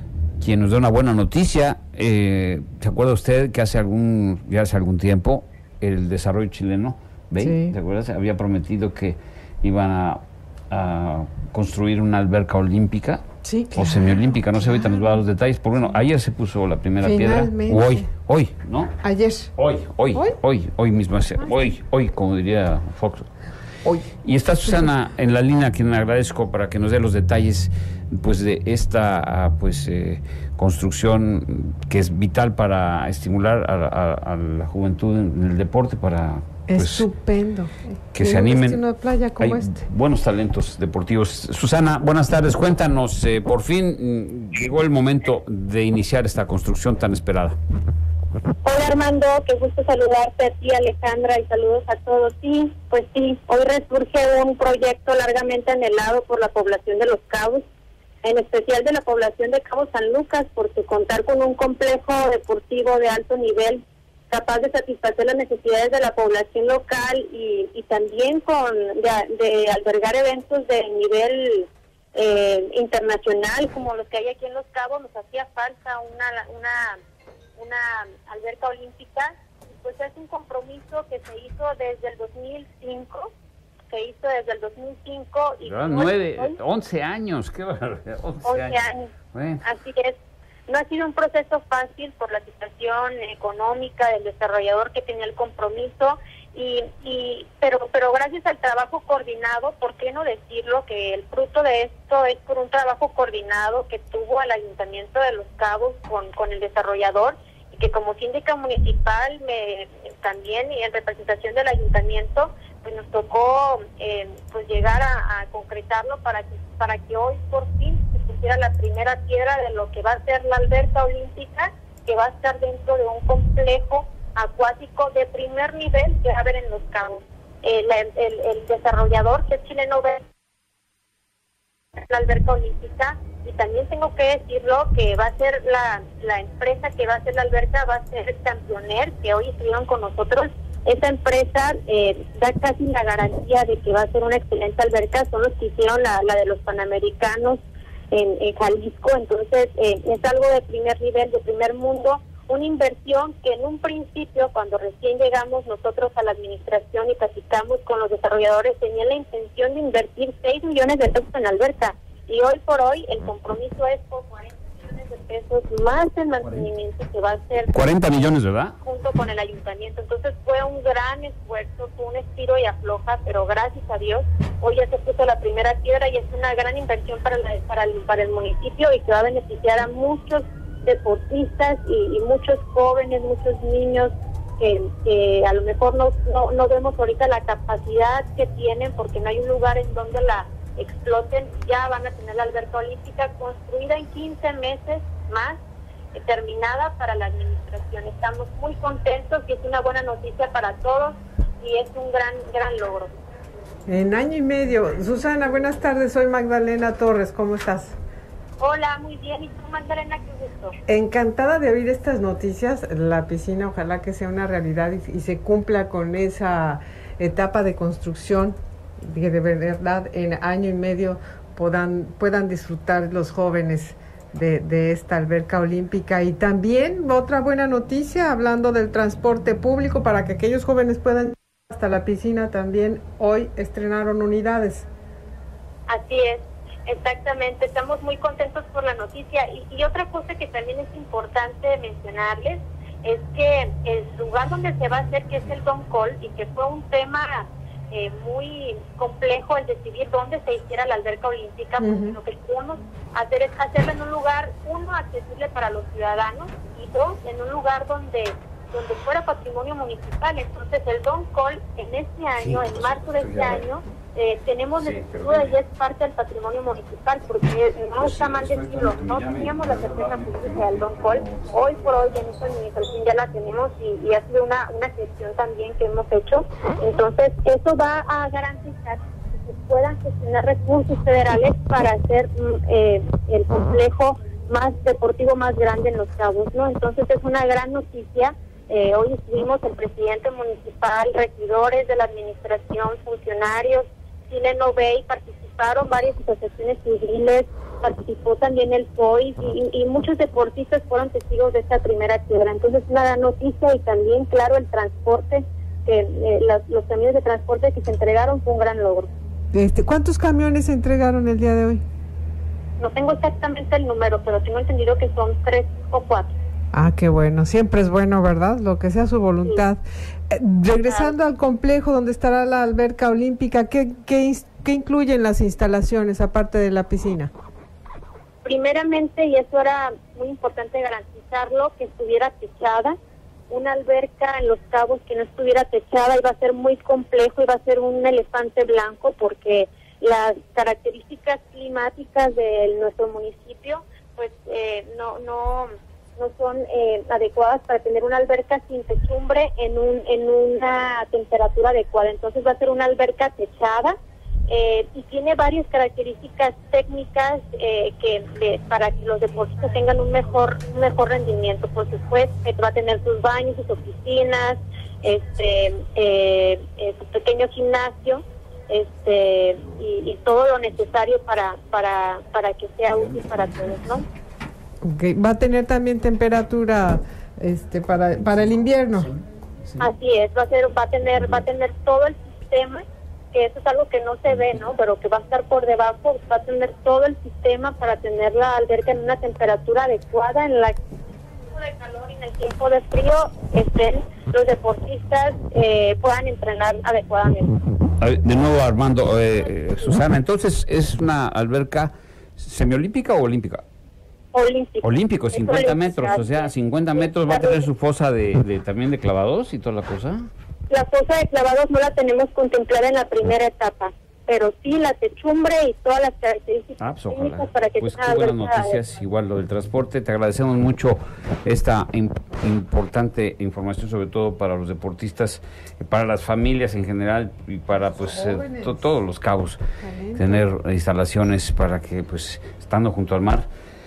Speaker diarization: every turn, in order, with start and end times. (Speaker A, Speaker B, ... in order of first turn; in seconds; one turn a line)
Speaker A: 0.4-18.9
Speaker B: 7.4-7.8
Speaker B: 13.4-14.4
Speaker B: 17.0-18.1
Speaker B: 19.0-19.5
Speaker A: 19.6-23.3
Speaker A: 24.2-37.1
Speaker B: 36.7-39.8
Speaker A: 38.1-38.8
Speaker A: 39.4-47.6
Speaker C: 48.6-57.6
Speaker C: 58.2-77.0
Speaker C: 77.6-83.3
Speaker C: 83.9-86.6
Speaker A: 85.7-88.8
Speaker C: 88.5-89.1
Speaker A: 89.3-89.6
Speaker C: 89.6-90.2
Speaker C: 90.7-130.2
Speaker C: 132.1-147.6
Speaker C: 148.1-195.6
Speaker A: 167.7-168.8
Speaker C: 196.1-203.1
Speaker B: 203.9-208.0
Speaker C: 208.6-210.8
Speaker B: 210.9-234.9
Speaker C: 235.9-309.1
Speaker B: 251.8-252.2
Speaker A: 262.4-263.6
Speaker A: 264.8-265.6
Speaker A: 268.0-271.5
Speaker B: 309.5-311.8
Speaker C: 312.8-316.3
Speaker B: 316.7-327.3
Speaker C: 320.9-321.1
Speaker C: 328.4-332.9
Speaker C: 333.5-353.9
Speaker C: 354.5-374.1
Speaker B: 374.8-379.1
Speaker C: 379.8-390.8
Speaker C: 391.6-397.6
Speaker A: 398.0-403.6
Speaker C: 404.3-407.7
Speaker A: 404.8-410.2
Speaker C: 410.7-418.8
Speaker A: 416.8-429.6
Speaker B: 428.1-428.8
Speaker B: 429.8-430.4
Speaker A: 430.2-433.5